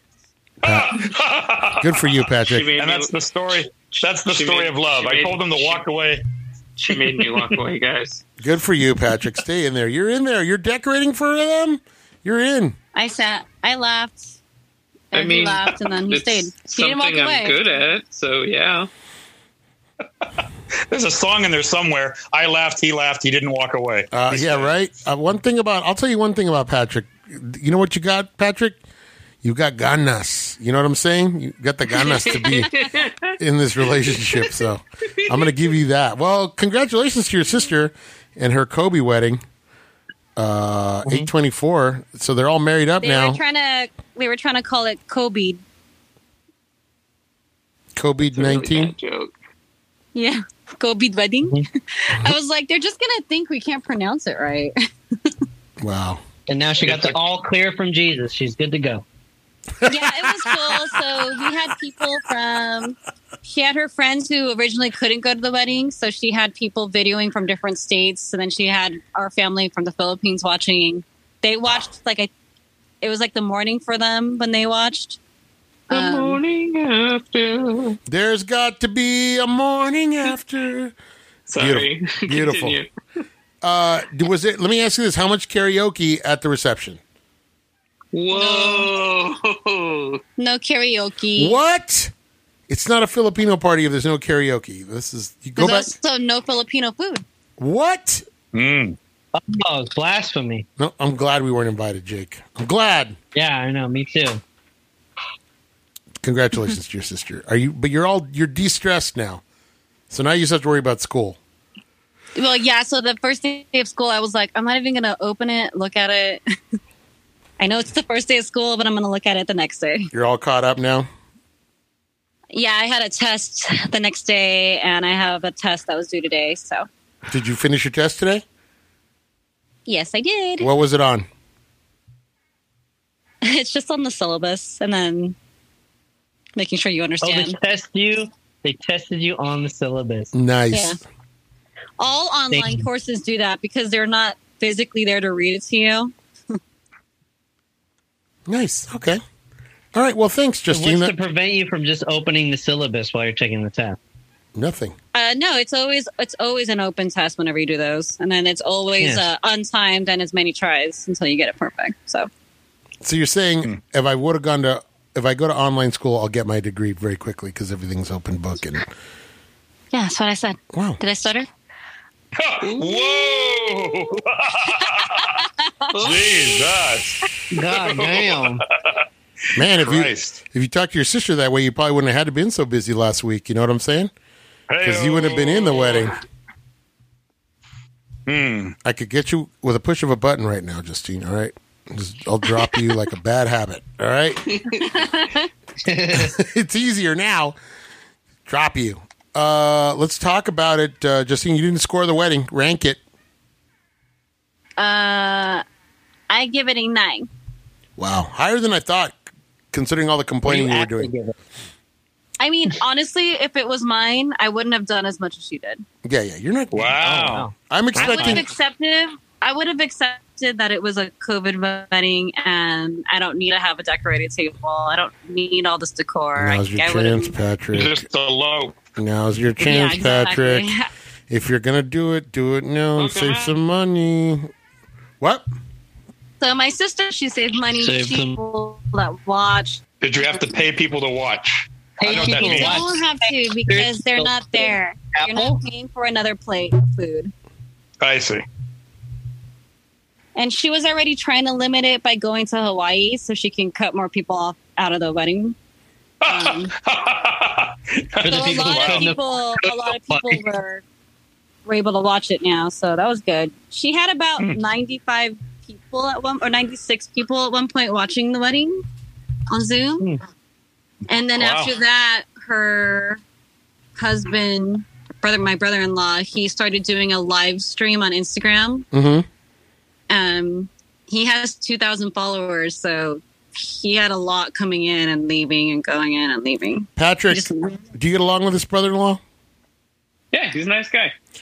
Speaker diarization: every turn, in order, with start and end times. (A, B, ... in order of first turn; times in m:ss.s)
0:00.6-0:02.1 A
0:00.6-0:01.0 B
0:01.8-0:02.7 B
0:02.4-0:03.1 C
0:02.8-0:06.2 A
0:03.9-0:05.8 C
0:06.8-0:08.2 C
0:06.9-0:07.4 A
0:08.4-0:12.8 B
0:12.9-0:14.3 D
0:15.1-0:17.6 D
0:15.1-0:18.9 C
0:20.9-0:24.7 A
0:24.1-0:28.8 B
0:29.4-0:39.4 B
0:32.2-0:33.3 C
0:40.4-0:43.4 B
0:43.0-0:45.6 D
0:47.9-0:48.9 B
0:48.3-0:49.3 C
0:50.1-0:55.3 D
0:55.8-0:56.2 B
0:56.5-0:59.0 E
0:56.8-0:57.2 A
0:59.8-1:01.0 B
0:59.8-1:12.3 D
1:13.0-1:15.2 D
1:15.9-1:16.4 D
1:15.9-1:18.0 C
1:18.1-1:20.9 B
1:21.5-1:22.9 C
1:21.6-1:22.8 B
1:23.6-1:27.0 B
1:28.1-1:30.2 C
1:28.3-1:28.9 D
1:30.4-1:31.6 D
1:31.4-1:32.1 B
1:32.7-1:35.9 B
1:35.6-1:37.2 D
1:37.6-1:38.2 B
1:38.5-1:39.0 A
1:39.3-1:40.6 E
1:40.8-1:43.2 B
1:43.3-1:44.4 E
1:46.2-1:49.4 B
1:50.1-1:51.4 B
1:52.4-1:56.4 D
1:57.6-2:00.1 D
2:00.1-2:01.1 B
2:02.5-2:06.9 D
2:07.3-2:08.4 B
2:09.8-2:10.7 D
2:10.6-2:11.3 B
2:13.4-2:15.4 D
2:16.6-2:17.6 D
2:17.2-2:20.3 E
2:20.3-2:21.0 B
2:20.7-2:21.0 D
2:22.0-2:26.1 D
2:22.5-2:22.8 E
2:28.5-2:29.2 B
2:29.9-2:31.1 B
2:30.7-2:34.0 E
2:34.6-2:34.9 B
2:35.1-2:42.3 D
2:39.0-2:39.3 E
2:43.0-2:48.9 B
2:49.9-2:51.5 D
2:50.7-2:51.0 B
2:52.3-2:55.4 A
2:52.6-2:54.1 C
2:54.7-2:56.3 D
2:55.9-2:56.7 C
2:56.0-2:57.2 A
2:57.5-2:58.6 E
2:57.7-2:58.6 A
2:59.5-3:04.1 B
2:59.7-3:00.4 A
3:04.7-3:06.1 A
3:04.8-3:06.2 B
3:08.2-3:08.8 A
3:08.8-3:14.6 B
3:14.8-3:15.5 D
3:15.8-3:16.4 E
3:16.1-3:17.6 B
3:18.5-3:23.0 B
3:24.8-3:25.6 D
3:26.3-3:27.3 D
3:28.0-3:29.2 B
3:29.7-3:31.1 B
3:30.4-3:31.3 E
3:32.4-3:35.8 D
3:36.0-3:37.0 B
3:36.7-3:37.5 A
3:37.0-3:38.5 E
3:37.6-3:38.5 B
3:38.0-3:47.3 D
3:46.4-3:48.0 B
3:47.7-3:48.8 A
3:49.0-3:50.7 B
3:49.6-3:50.9 D
3:51.3-3:54.5 B
3:53.0-3:53.6 C
3:55.2-3:55.4 B
3:56.4-3:59.8 D
3:57.8-3:58.4 E
4:00.0-4:02.9 A
4:02.0-4:03.1 E
4:02.1-4:07.3 D
4:03.7-4:05.6 E
4:08.0-4:08.4 A
4:10.4-4:15.6 D
4:16.2-4:19.1 A
4:16.2-4:16.7 D
4:18.2-4:20.4 E
4:18.2-4:20.8 D
4:21.6-4:28.8 D
4:29.5-4:30.1 D
4:31.1-4:33.2 D
4:31.3-4:31.7 A
4:34.0-4:38.9 D
4:38.9-4:39.3 B
4:40.1-4:47.8 D
4:47.0-4:49.2 B
4:50.3-4:51.1 C